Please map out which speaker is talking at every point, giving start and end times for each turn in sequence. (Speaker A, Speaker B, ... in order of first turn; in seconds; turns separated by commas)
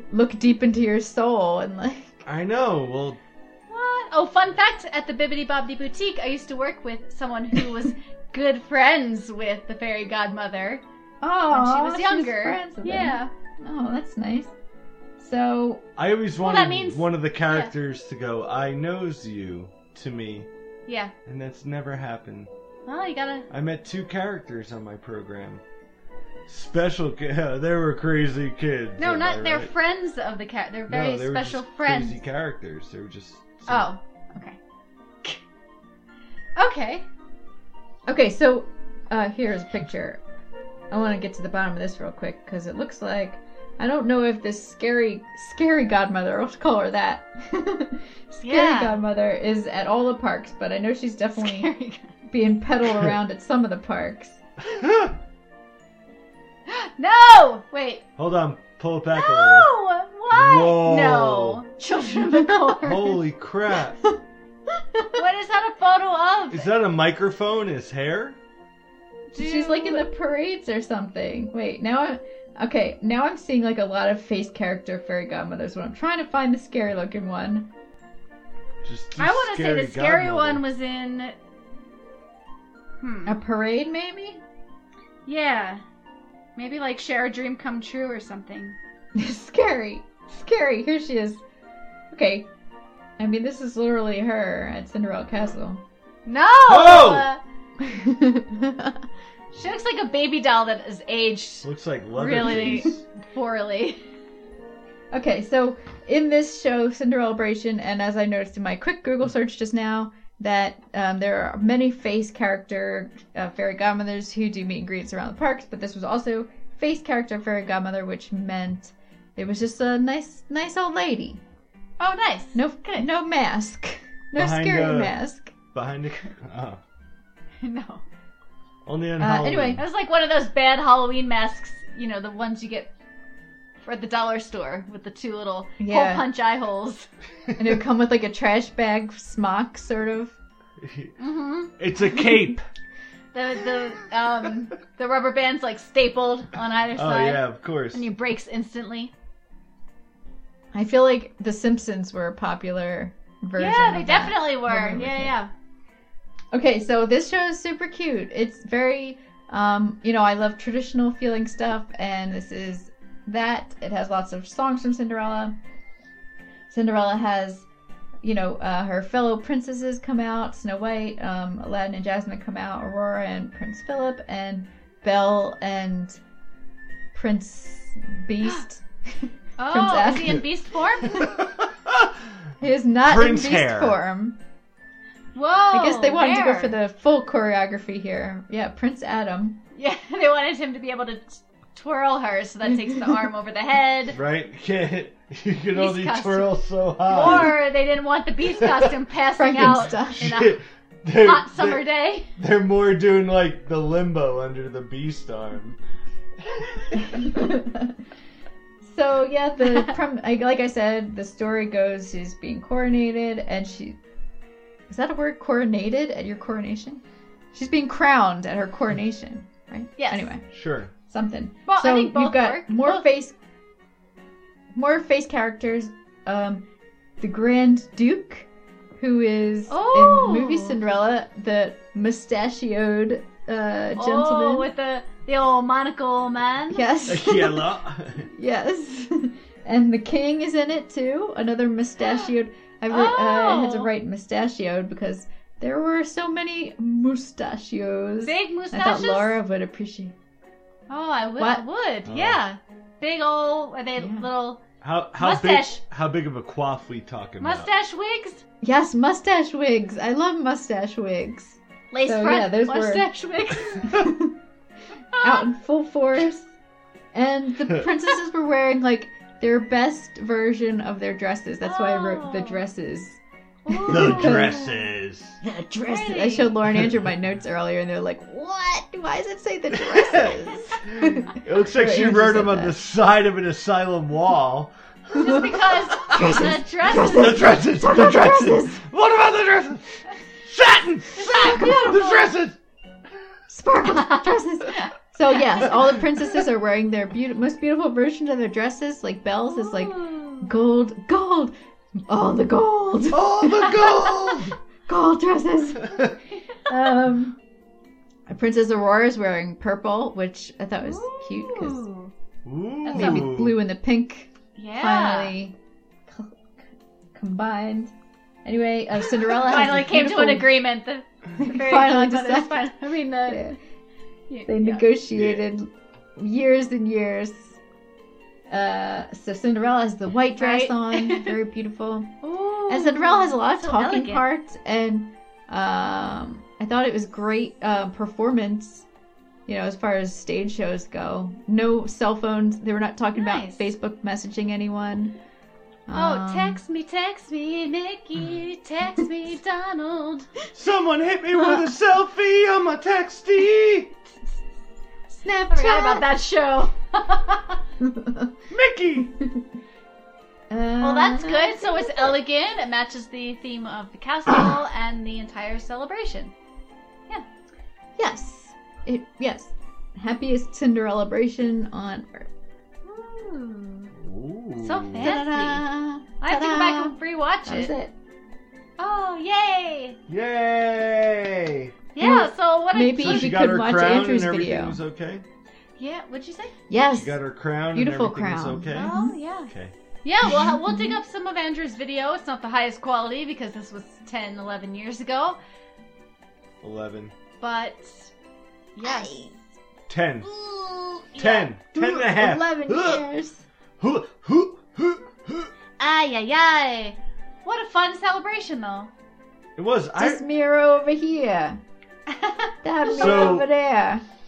Speaker A: 0.1-2.2, Speaker B: 2.2-3.2, Speaker C: 3.7-10.8, Speaker A: 11.2-14.5, Speaker C: 11.5-13.3, Speaker A: 15.2-15.8, Speaker B: 16.0-20.5, Speaker C: 16.4-17.7, Speaker C: 20.9-21.1, Speaker B: 21.2-22.5, Speaker C: 22.9-23.5, Speaker B: 23.5-25.6, Speaker B: 26.5-29.7, Speaker C: 29.0-32.2, Speaker B: 30.9-33.9, Speaker C: 33.7-34.6, Speaker C: 36.6-37.0, Speaker A: 38.1-40.2, Speaker A: 40.9-51.7, Speaker C: 48.4-49.0, Speaker C: 51.4-52.1, Speaker A: 52.3-54.4, Speaker B: 52.9-53.1, Speaker B: 54.6-55.2, Speaker C: 56.7-58.0, Speaker B: 58.2-59.7, Speaker C: 59.1-63.2, Speaker B: 60.3-61.6, Speaker B: 62.8-64.0, Speaker A: 64.9-65.2, Speaker C: 65.1-66.7, Speaker B: 66.5-68.4, Speaker C: 69.3-70.1, Speaker A: 69.4-77.7, Speaker B: 78.8-80.6, Speaker C: 79.2-81.3, Speaker C: 83.0-83.4, Speaker A: 83.3-84.4, Speaker C: 85.3-85.8, Speaker C: 86.5-88.8, Speaker A: 89.1-91.4, Speaker A: 92.1-92.5, Speaker A: 93.2-95.8, Speaker C: 96.2-97.4, Speaker B: 96.7-97.3, Speaker A: 97.8-99.0, Speaker C: 99.5-104.0, Speaker B: 101.6-103.0, Speaker A: 102.4-102.9, Speaker A: 105.1-121.4, Speaker C: 122.0-123.1, Speaker A: 122.5-125.5, Speaker B: 124.3-125.2, Speaker B: 125.7-126.8, Speaker C: 127.6-128.0, Speaker B: 128.8-129.8, Speaker A: 129.2-129.8, Speaker C: 129.8-132.9, Speaker C: 133.8-137.1, Speaker A: 135.8-136.3, Speaker A: 137.6-140.3, Speaker B: 140.8-141.1, Speaker C: 141.2-141.7, Speaker B: 141.8-142.6, Speaker C: 143.3-149.1, Speaker B: 146.9-148.1, Speaker A: 150.7-155.3, Speaker C: 153.6-155.5, Speaker A: 156.5-165.5, Speaker A: 166.7-167.7, Speaker A: 168.2-176.2, Speaker A: 177.1-180.5, Speaker C: 179.6-181.3, Speaker B: 181.6-182.1, Speaker A: 182.6-184.4, Speaker B: 183.0-184.0, Speaker C: 185.3-186.8, Speaker A: 185.7-189.6, Speaker C: 189.8-194.2, Speaker B: 194.1-197.6, Speaker C: 195.7-200.6, Speaker B: 198.6-198.9, Speaker A: 199.3-200.3, Speaker B: 200.2-205.8, Speaker C: 201.2-202.3, Speaker B: 206.4-207.0, Speaker A: 207.0-207.9, Speaker A: 208.8-214.0, Speaker C: 209.7-209.9, Speaker A: 214.9-217.0, Speaker A: 217.5-220.4, Speaker C: 220.0-220.2, Speaker B: 220.5-220.9, Speaker A: 221.1-223.3, Speaker C: 221.7-223.0, Speaker A: 224.7-226.6, Speaker A: 227.2-228.5, Speaker A: 229.0-234.7, Speaker C: 229.7-230.8, Speaker C: 233.9-236.9, Speaker A: 236.7-237.7, Speaker B: 237.1-238.3, Speaker A: 238.3-250.1, Speaker C: 242.0-242.3, Speaker C: 242.9-243.9, Speaker C: 248.2-249.4, Speaker C: 250.9-254.6, Speaker A: 251.4-251.6, Speaker B: 252.1-252.4, Speaker A: 254.0-254.2, Speaker B: 254.8-257.7, Speaker C: 255.2-255.8, Speaker C: 257.4-258.4, Speaker A: 258.6-263.1, Speaker C: 261.9-263.9, Speaker A: 263.8-264.4, Speaker C: 265.1-265.5, Speaker A: 265.2-266.5, Speaker A: 267.1-274.7, Speaker C: 271.6-272.6, Speaker C: 273.7-274.6, Speaker B: 273.9-275.4, Speaker A: 275.4-282.8, Speaker C: 275.9-276.5, Speaker B: 276.7-277.1, Speaker B: 279.7-285.6, Speaker C: 285.1-287.4, Speaker A: 286.0-288.8, Speaker B: 286.1-292.6, Speaker C: 291.2-292.2, Speaker A: 291.3-292.1, Speaker A: 293.5-301.5, Speaker C: 299.5-300.5, Speaker A: 302.1-306.0, Speaker B: 303.1-304.6, Speaker B: 305.8-306.1, Speaker A: 306.7-307.4, Speaker A: 308.3-311.8, Speaker C: 310.8-312.1, Speaker B: 312.4-313.6, Speaker C: 312.8-313.3, Speaker A: 312.9-315.5, Speaker C: 314.6-315.4, Speaker A: 316.1-316.5, Speaker A: 317.1-317.9, Speaker A: 318.4-320.6, Speaker C: 319.3-323.4, Speaker A: 321.4-322.7, Speaker A: 323.3-323.6, Speaker C: 324.3-324.8, Speaker A: 324.5-327.6, Speaker B: 325.1-325.4, Speaker A: 328.5-332.1, Speaker C: 330.4-331.3, Speaker C: 332.2-334.2, Speaker A: 332.7-338.9, Speaker A: 339.5-345.2, Speaker C: 343.1-343.7, Speaker A: 345.9-346.6, Speaker C: 345.9-350.3, Speaker B: 350.5-353.9, Speaker A: 355.1-356.1, Speaker C: 355.5-357.6, Speaker A: 357.8-358.3, Speaker B: 358.5-359.1, Speaker A: 359.2-359.4, Speaker A: 360.5-362.2, Speaker C: 360.8-366.3, Speaker A: 368.0-372.3, Speaker C: 372.8-373.9, Speaker B: 373.9-375.1, Speaker C: 374.6-375.6, Speaker A: 375.0-377.9, Speaker C: 376.2-377.7, Speaker C: 378.8-380.0, Speaker B: 380.1-381.7, Speaker C: 381.9-383.3, Speaker A: 382.0-384.8, Speaker B: 383.0-385.2, Speaker C: 385.8-386.5, Speaker A: 386.7-389.1, Speaker B: 386.9-388.9, Speaker C: 388.7-389.5, Speaker B: 389.5-389.7, Speaker C: 390.0-395.4, Speaker A: 390.2-391.0, Speaker B: 396.6-397.1, Speaker C: 397.4-398.1, Speaker C: 398.8-399.3, Speaker A: 398.8-399.3, Speaker B: 399.9-400.3, Speaker C: 400.4-401.5, Speaker B: 401.1-403.0, Speaker A: 401.7-403.4, Speaker B: 403.8-405.5, Speaker C: 405.8-408.9, Speaker B: 409.6-410.2, Speaker A: 410.0-411.6, Speaker C: 412.1-413.4, Speaker A: 412.6-414.0, Speaker B: 412.9-413.5